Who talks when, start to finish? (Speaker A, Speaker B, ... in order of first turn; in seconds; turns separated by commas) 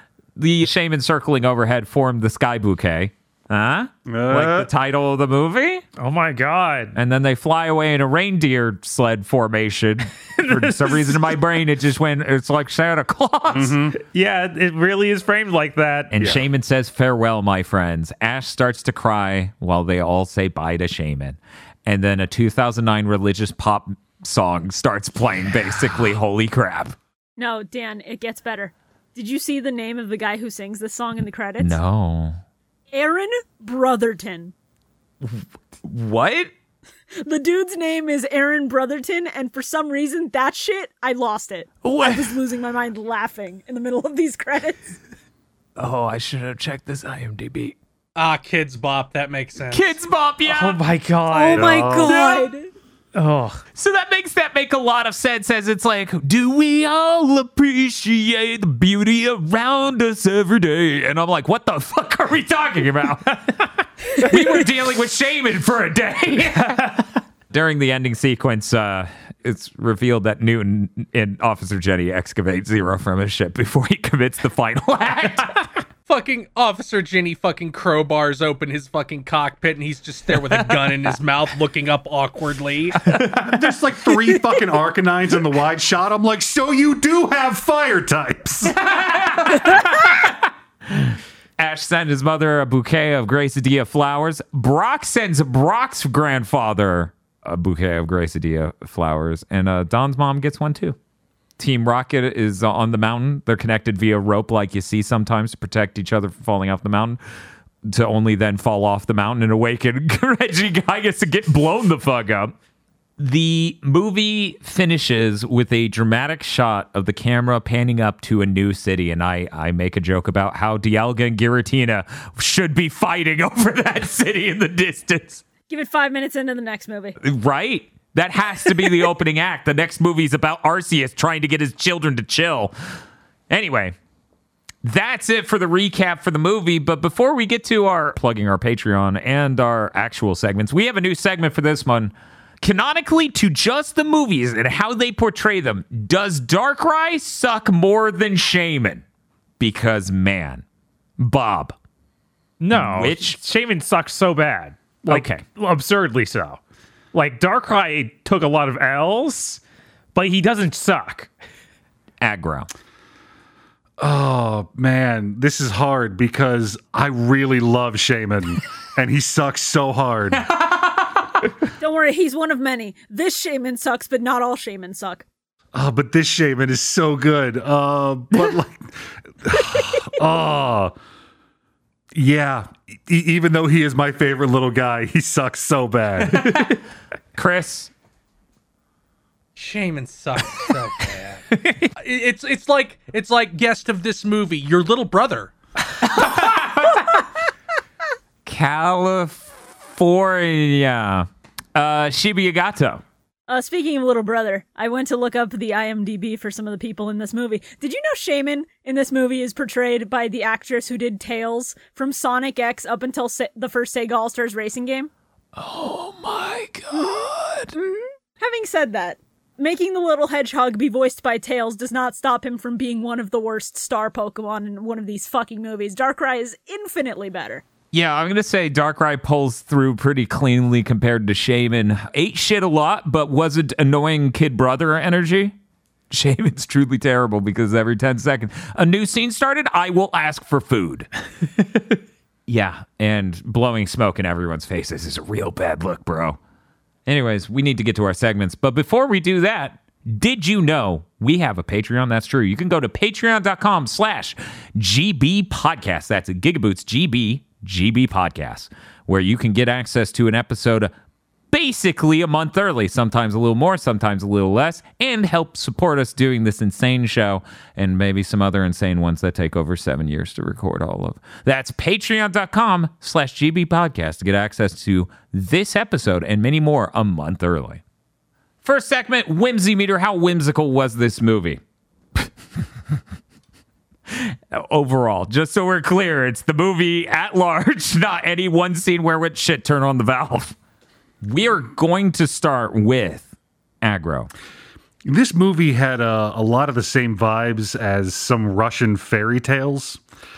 Speaker A: 0.4-5.8, Speaker B: 4.1-4.7, Speaker C: 6.0-6.9, Speaker A: 7.0-13.9, Speaker C: 10.4-11.4, Speaker B: 13.5-14.0, Speaker C: 14.1-16.2, Speaker A: 16.1-27.0, Speaker D: 27.4-31.8, Speaker A: 31.6-32.4, Speaker D: 32.9-34.5, Speaker A: 35.2-36.5, Speaker D: 37.2-44.9, Speaker A: 41.8-42.4, Speaker A: 45.8-47.8, Speaker E: 48.1-50.0, Speaker A: 49.7-50.8, Speaker C: 50.5-52.5, Speaker D: 51.3-52.7, Speaker B: 51.5-52.3, Speaker A: 51.7-52.5, Speaker C: 53.1-53.6, Speaker A: 53.8-75.7, Speaker E: 76.1-83.2, Speaker C: 83.2-83.5, Speaker B: 83.2-88.8, Speaker A: 88.7-90.1, Speaker A: 91.6-101.0, Speaker A: 101.6-107.2, Speaker A: 107.9-112.5, Speaker A: 113.2-125.4, Speaker D: 125.7-127.2, Speaker A: 127.2-132.7, Speaker A: 133.5-134.0, Speaker A: 134.8-149.0, Speaker A: 149.6-150.6, Speaker A: 151.2-151.8, Speaker C: 152.6-156.6, Speaker A: 152.7-153.4, Speaker A: 155.1-155.4, Speaker C: 157.1-159.6, Speaker C: 160.1-161.3, Speaker A: 162.2-162.7, Speaker B: 164.0-170.4, Speaker A: 170.4-171.2, Speaker D: 171.8-175.2, Speaker B: 175.7-180.9, Speaker B: 182.1-186.5, Speaker A: 186.4-186.8, Speaker A: 187.3-187.9, Speaker E: 189.6-191.4, Speaker C: 191.6-191.9, Speaker E: 192.0-195.5, Speaker A: 196.0-197.1, Speaker C: 196.2-196.7, Speaker A: 198.4-203.0, Speaker D: 203.5-215.1, Speaker A: 215.6-217.8, Speaker D: 217.8-227.6, Speaker A: 227.9-235.6, Speaker A: 236.1-241.1, Speaker A: 242.5-246.4, Speaker A: 247.1-260.9, Speaker A: 261.5-277.8, Speaker A: 278.6-281.6, Speaker A: 284.1-290.6, Speaker A: 291.2-293.3, Speaker A: 293.8-294.3, Speaker B: 295.1-300.0